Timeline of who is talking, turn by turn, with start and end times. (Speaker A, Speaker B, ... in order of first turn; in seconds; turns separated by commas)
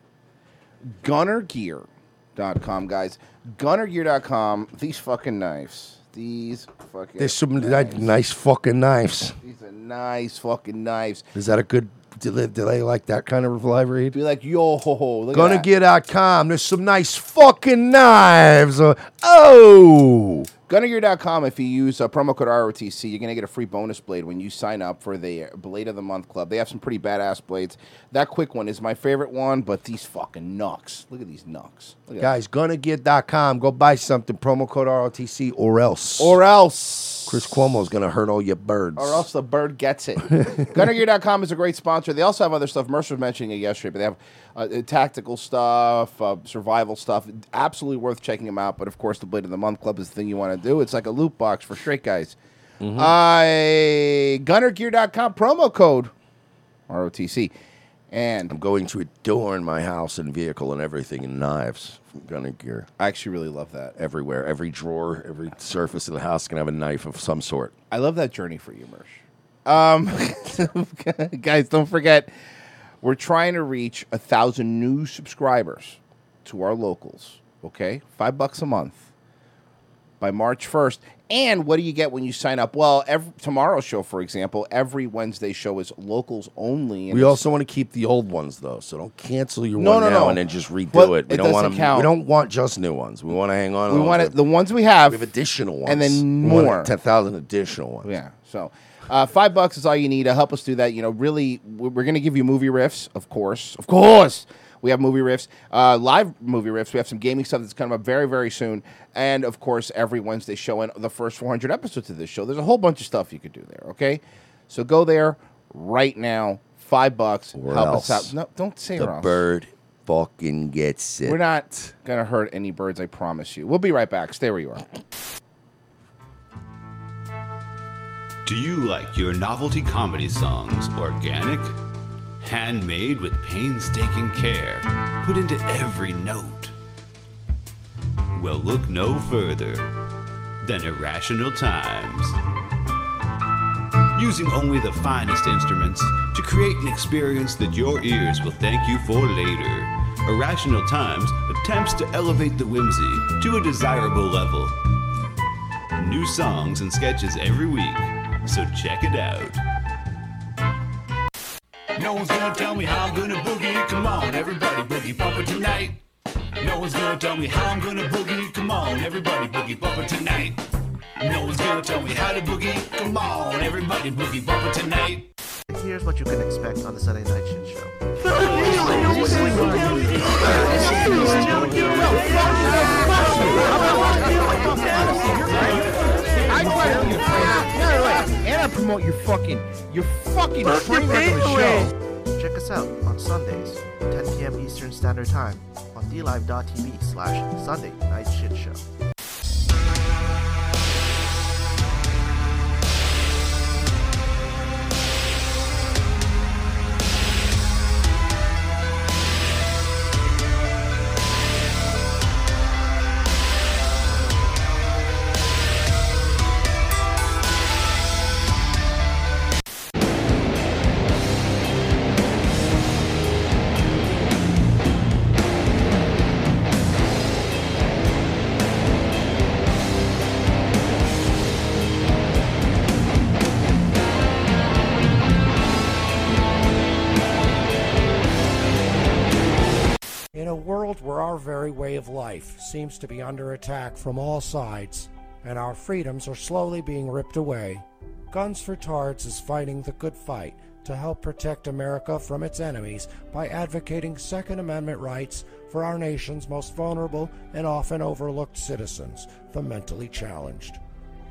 Speaker A: 0.8-8.1, Speaker B: 7.2-9.4, Speaker A: 9.4-11.3, Speaker B: 11.3-14.2, Speaker A: 14.1-15.7, Speaker B: 15.3-20.5, Speaker A: 20.7-32.3, Speaker B: 32.2-36.4, Speaker A: 36.2-37.6, Speaker B: 37.3-39.2, Speaker A: 39.0-52.4, Speaker B: 52.8-53.1, Speaker A: 53.0-56.1, Speaker A: 56.9-57.5, Speaker A: 58.1-58.5, Speaker B: 58.5-62.9, Speaker A: 63.0-63.9, Speaker B: 64.0-67.7, Speaker A: 67.9-72.3, Speaker A: 73.0-79.1, Speaker A: 80.2-87.4, Speaker B: 87.1-94.3, Speaker A: 89.8-90.4, Speaker A: 90.9-92.1, Speaker A: 93.9-95.2, Speaker B: 95.1-98.1, Speaker A: 95.8-96.9, Speaker A: 98.0-119.4, Speaker B: 117.5-118.3, Speaker B: 119.0-121.9, Speaker A: 121.2-124.8, Speaker C: 128.4-131.7, Speaker C: 132.4-136.7, Speaker C: 138.3-139.9, Speaker C: 140.6-142.4, Speaker C: 144.1-154.8, Speaker C: 155.9-159.6, Speaker C: 161.9-166.0, Speaker C: 166.6-170.6, Speaker C: 171.2-175.2, Speaker D: 175.7-177.9, Speaker D: 178.5-185.7, Speaker A: 183.3-184.0, Speaker A: 184.9-185.8, Speaker D: 186.4-188.4, Speaker A: 186.4-191.9, Speaker D: 190.6-198.8, Speaker E: 240.3-260.8